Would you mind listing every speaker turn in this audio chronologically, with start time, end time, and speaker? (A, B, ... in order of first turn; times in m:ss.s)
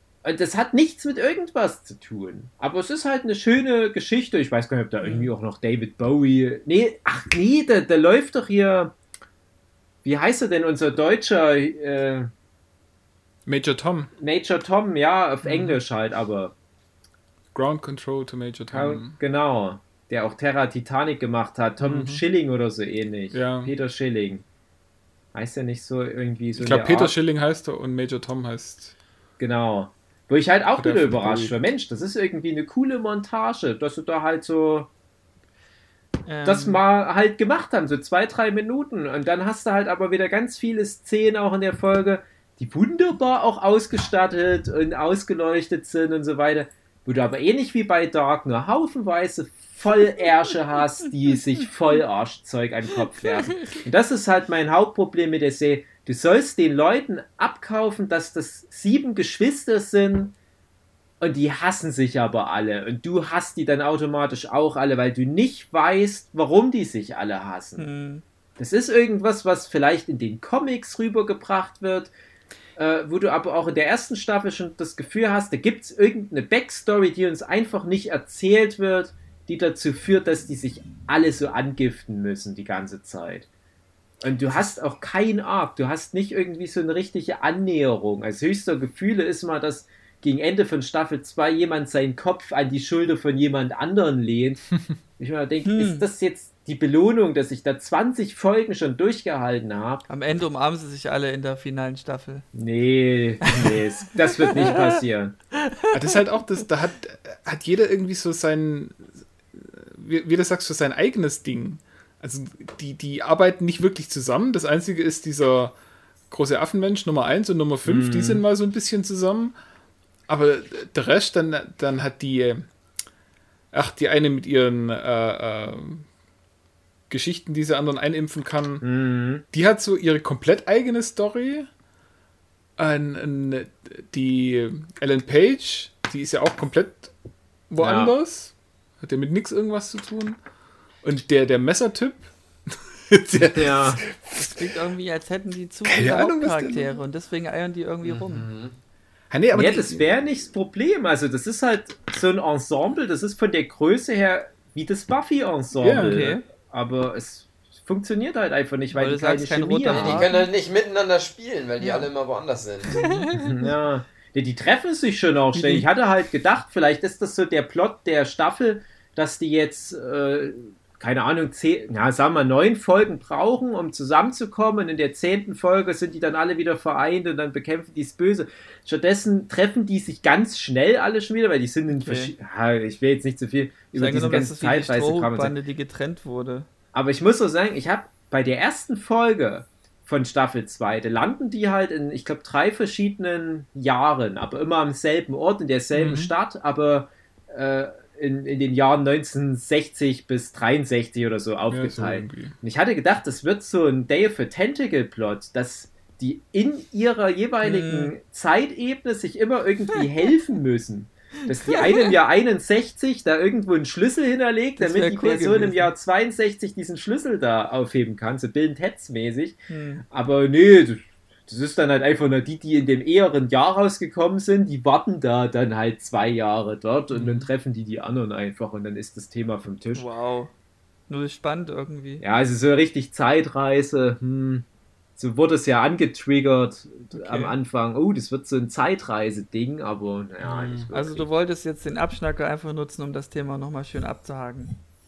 0:00.2-0:09.0 A
0:05.0-0:05.3 B
0:10.0-0:12.3 A
0:13.5-0:14.1 C
0:14.2-0:16.5 A
0:15.4-0:15.8 C
0:17.5-0:19.2 C
0:18.7-0:24.4 A
0:21.8-0:22.2 C
0:23.3-0:23.7 C
0:25.3-0:27.2 A
0:26.6-0:28.9 C
0:29.4-0:34.9 A
0:30.8-0:31.6 C
0:36.3-0:36.8 B
0:36.4-1:00.3 A
1:01.2-1:07.8 A
1:07.8-1:08.2 B
1:08.6-1:12.1 A
1:12.8-1:23.5 A
1:24.2-1:34.6 A
1:35.2-1:40.0 A
1:35.6-1:36.1 B
1:40.1-1:42.5 B
1:42.6-1:45.4 A
1:43.5-1:43.8 B
1:44.5-1:44.9 B
1:45.5-1:46.2 B
1:45.9-1:55.8 C
1:56.3-1:59.5 C
1:57.8-1:58.4 A
2:00.3-2:02.7 C
2:03.7-2:06.1 C
2:07.1-2:08.8 C
2:08.8-2:09.4 A
2:09.5-2:11.7 C
2:12.8-2:17.1 C
2:17.7-2:20.4 C
2:17.8-2:18.1 A
2:21.0-2:24.6 C
2:23.6-2:24.0 A
2:24.3-2:28.5 B
2:25.8-2:27.0 C
2:28.0-2:28.8 D
2:29.3-2:30.1 C
2:29.5-2:40.3 A
2:35.8-2:36.2 C
2:36.0-2:36.4 B
2:38.9-2:40.5 B
2:39.9-2:43.2 D
2:41.8-2:42.1 B
2:42.9-2:43.7 B
2:43.3-3:05.5 A
2:45.5-2:45.9 B
3:01.9-3:02.3 B
3:03.9-3:06.7 B
3:06.9-3:39.6 A
3:15.9-3:16.3 C
3:21.7-3:22.6 C
3:27.6-3:28.1 B
3:31.6-3:32.1 B
3:34.8-3:35.9 B
3:39.7-3:40.1 B
3:40.1-3:50.1 A
3:47.1-3:47.5 C
3:49.9-3:50.5 B
3:51.1-3:52.2 B
3:52.2-3:54.7 A
3:55.2-4:01.3 A
3:57.1-3:57.6 B
4:00.4-4:00.9 C
4:00.9-4:04.7 B